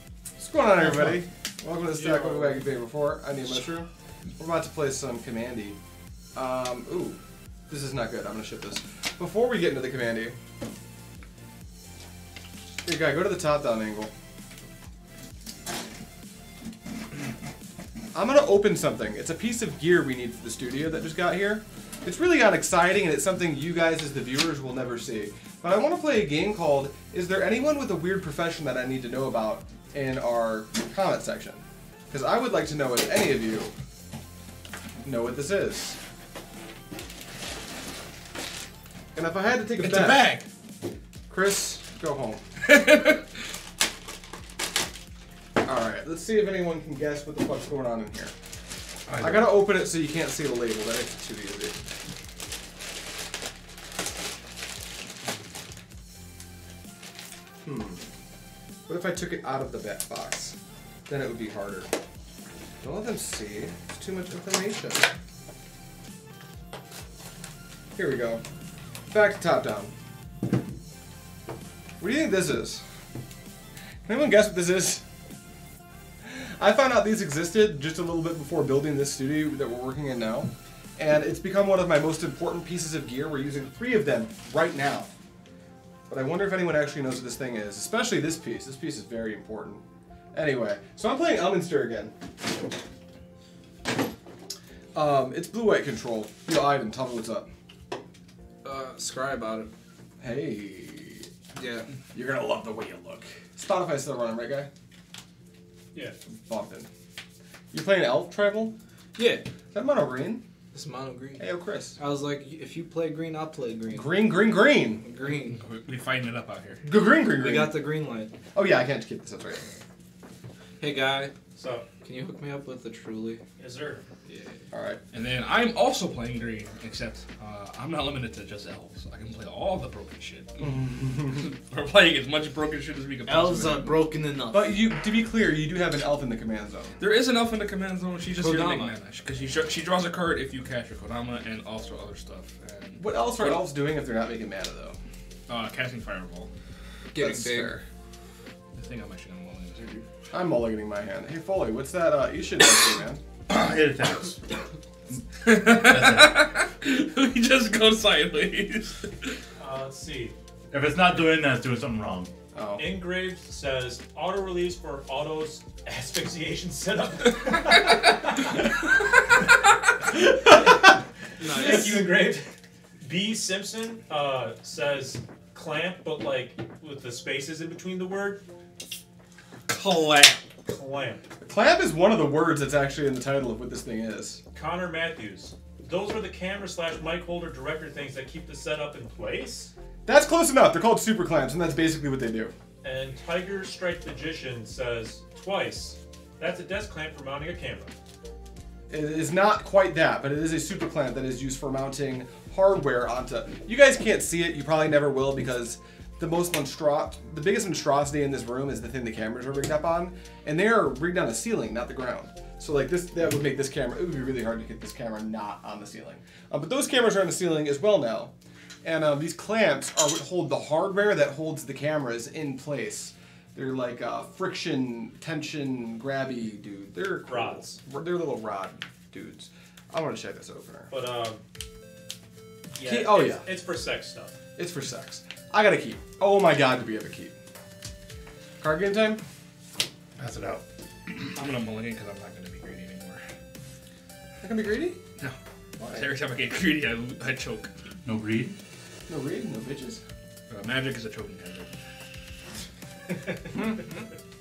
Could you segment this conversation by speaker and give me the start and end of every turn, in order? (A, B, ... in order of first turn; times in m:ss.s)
0:00.4-0:05.8 A
0:02.0-0:02.7 B
0:06.3-0:10.4 A
0:12.8-0:14.1 A
0:18.1-0:33.7 A
0:35.0-0:36.0 A
0:39.1-0:40.4 A
0:39.8-0:40.5 C
0:41.3-0:42.4 A
0:42.6-0:43.2 C
0:45.6-0:48.3 A
0:49.1-0:49.7 D
0:49.2-0:51.8 A
0:57.6-0:58.0 A
0:58.9-1:00.6 A
1:01.1-1:01.9 A
1:02.8-1:05.1 A
1:08.0-1:08.4 A
1:09.1-1:09.9 A
1:12.0-1:12.8 A
1:14.0-1:15.0 A
1:16.2-1:25.1 A
1:26.1-1:32.1 A
1:34.9-1:37.5 A
1:38.6-1:39.7 B
1:40.2-1:41.3 A
1:41.6-1:41.9 B
1:42.1-1:44.7 A
1:46.4-1:46.9 A
1:47.7-1:48.7 A
1:49.2-1:49.4 B
1:49.7-1:50.4 A
1:50.7-1:51.4 B
1:51.4-1:52.0 A
1:52.0-1:54.4 B
1:53.9-1:55.0 A
1:55.0-1:55.6 B
1:55.5-1:56.8 C
1:56.8-1:57.9 A
1:57.3-1:58.3 B
1:58.5-1:59.6 A
2:00.8-2:01.3 B
2:01.6-2:01.8 E
2:02.0-2:03.4 B
2:03.6-2:04.0 E
2:04.3-2:04.6 B
2:04.7-2:05.0 A
2:05.1-2:14.1 C
2:10.6-2:11.5 A
2:13.3-2:14.8 B
2:14.5-2:17.0 A
2:17.0-2:23.6 C
2:18.4-2:19.0 B
2:23.0-2:25.0 A
2:25.5-2:26.5 C
2:27.1-2:27.8 B
2:27.2-2:27.8 A
2:28.8-2:30.1 C
2:30.3-2:33.2 A
2:33.5-2:34.4 D
2:35.4-2:39.4 C
2:35.7-2:36.5 D
2:39.6-2:40.4 E
2:40.7-2:42.3 D
2:42.5-2:43.1 A
2:42.8-2:48.2 E
2:50.3-2:52.5 E
2:51.4-2:52.0 B
2:53.0-2:58.4 E
2:59.7-3:00.4 C
3:00.7-3:01.2 E
3:01.4-3:04.4 A
3:04.5-3:09.7 E
3:10.0-3:12.5 A
3:12.8-3:17.9 E
3:18.9-3:38.3 A
3:38.8-3:50.9 A
3:47.3-3:47.8 E
3:50.9-3:51.4 E
3:52.8-3:54.4 E
3:52.8-3:53.5 A
3:54.6-3:57.4 A
3:58.6-3:59.2 A
4:00.2-4:01.4 D
4:01.3-4:03.2 C
4:04.4-4:05.0 A
4:05.2-4:07.7 C
4:05.8-4:06.1 A
4:08.0-4:08.6 D
4:09.1-4:10.0 A
4:10.5-4:11.7 C